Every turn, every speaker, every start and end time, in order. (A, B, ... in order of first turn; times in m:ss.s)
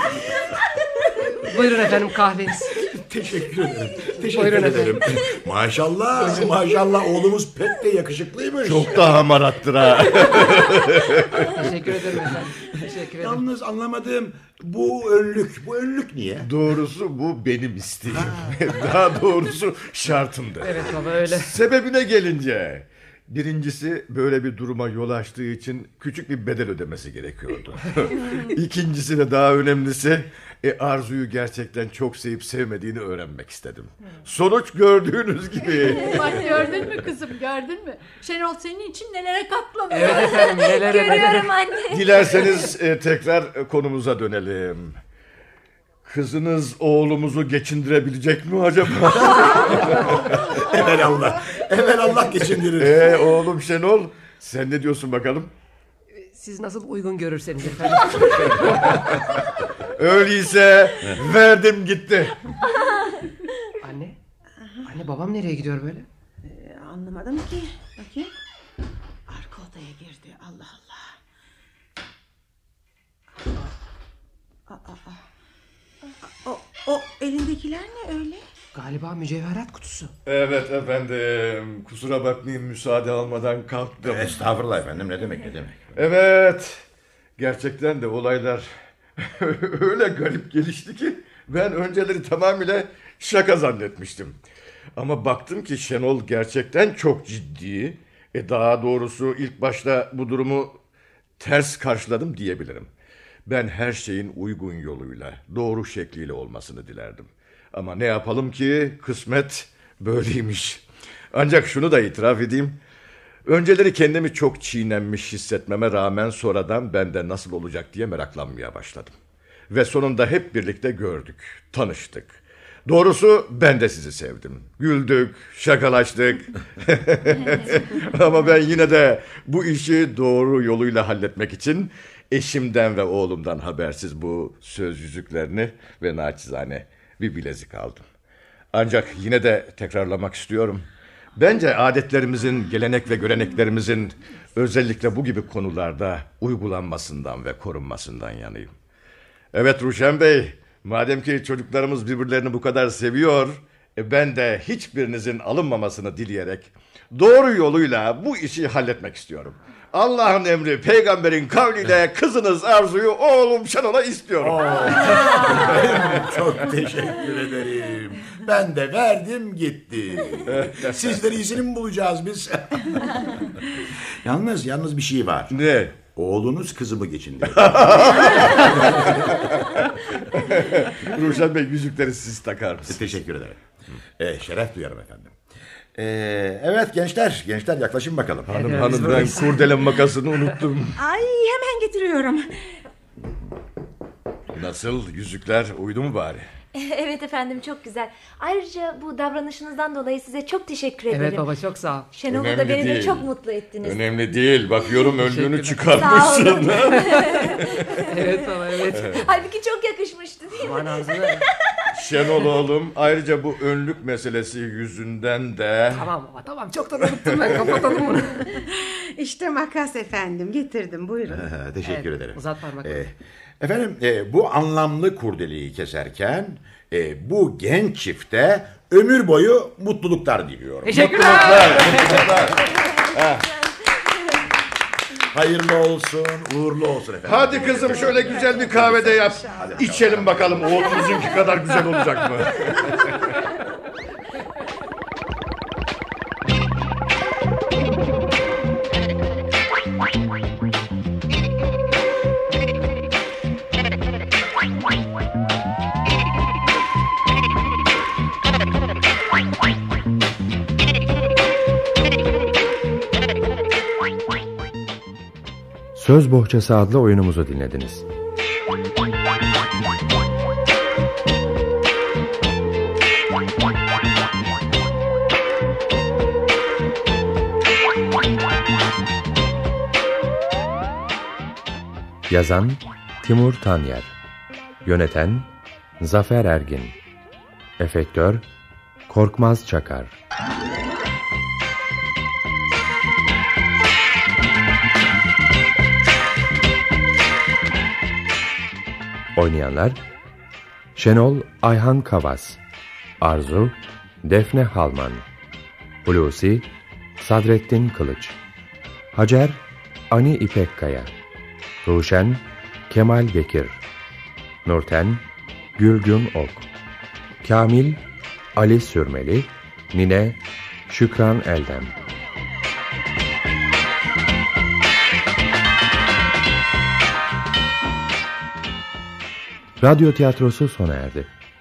0:01.3-0:02.8 A
0:02.8-0:09.3 B
0:04.2-0:05.1 A
0:08.6-0:11.6 C
0:11.5-0:13.4 A
0:13.2-0:16.5 B
0:16.4-0:36.5 C
0:18.1-0:18.5 B
0:20.6-0:21.5 A
0:35.7-0:40.5 D
0:36.3-0:36.6 E
0:39.9-0:41.5 A
0:40.0-0:42.7 E
0:41.9-0:45.0 C
0:46.0-0:50.6 C
0:49.8-0:53.2 B
0:52.7-0:55.5 C
0:56.1-0:59.1 A
0:58.5-1:02.4 C
1:03.8-1:04.2 A
1:04.8-1:06.1 A
1:06.4-1:08.3 F
1:09.3-1:11.1 F
1:14.7-1:15.2 F
1:16.2-1:18.4 F
1:18.7-1:20.1 A
1:20.2-1:24.3 C
1:24.0-1:25.9 B
1:26.0-1:26.8 C
1:27.4-1:34.4 C
1:35.0-1:40.7 C
1:41.4-1:42.9 C
1:43.4-1:52.8 C
1:53.4-1:59.1 C
1:59.7-2:18.0 C
2:18.7-2:28.7 C
2:29.5-2:46.4 C
2:44.4-2:53.4 B
2:50.5-2:51.0 C
2:54.2-2:59.6 B
2:55.5-2:56.0 C
2:57.5-3:03.1 C
3:02.9-3:03.6 B
3:04.2-3:05.4 B
3:06.0-3:09.1 B
3:08.5-3:11.0 C
3:08.5-3:09.7 A
3:11.0-3:12.6 F
3:14.5-3:16.4 C
3:16.7-3:21.5 E
3:21.1-3:22.1 A
3:22.1-3:24.0 E
3:22.3-3:23.3 C
3:23.8-3:28.0 C
3:25.2-3:29.2 A
3:26.0-3:28.3 E
3:29.1-3:32.5 E
3:30.6-3:31.5 A
3:31.9-3:36.1 C
3:35.9-3:38.6 A
3:37.4-3:37.7 C
3:38.5-3:41.5 F
3:41.3-3:52.2 B
3:41.8-3:43.0 A
3:50.8-3:52.5 A
3:50.9-3:53.5 C
3:55.3-4:01.4 B
3:57.2-4:03.3 C
4:25.9-4:28.0 G
4:42.3-4:44.1 G
4:44.8-4:47.0 G
4:47.8-4:48.4 G
4:49.1-4:50.2 G
4:59.3-5:00.0 G
5:00.9-5:02.6 G
5:03.2-5:05.2 G
5:06.0-5:08.4 G
5:09.1-5:11.1 G
5:11.8-5:13.8 G
5:14.6-5:15.2 G
5:15.8-5:16.7 G
5:17.4-5:18.0 G
5:18.5-5:22.0 G
5:29.8-5:31.3 G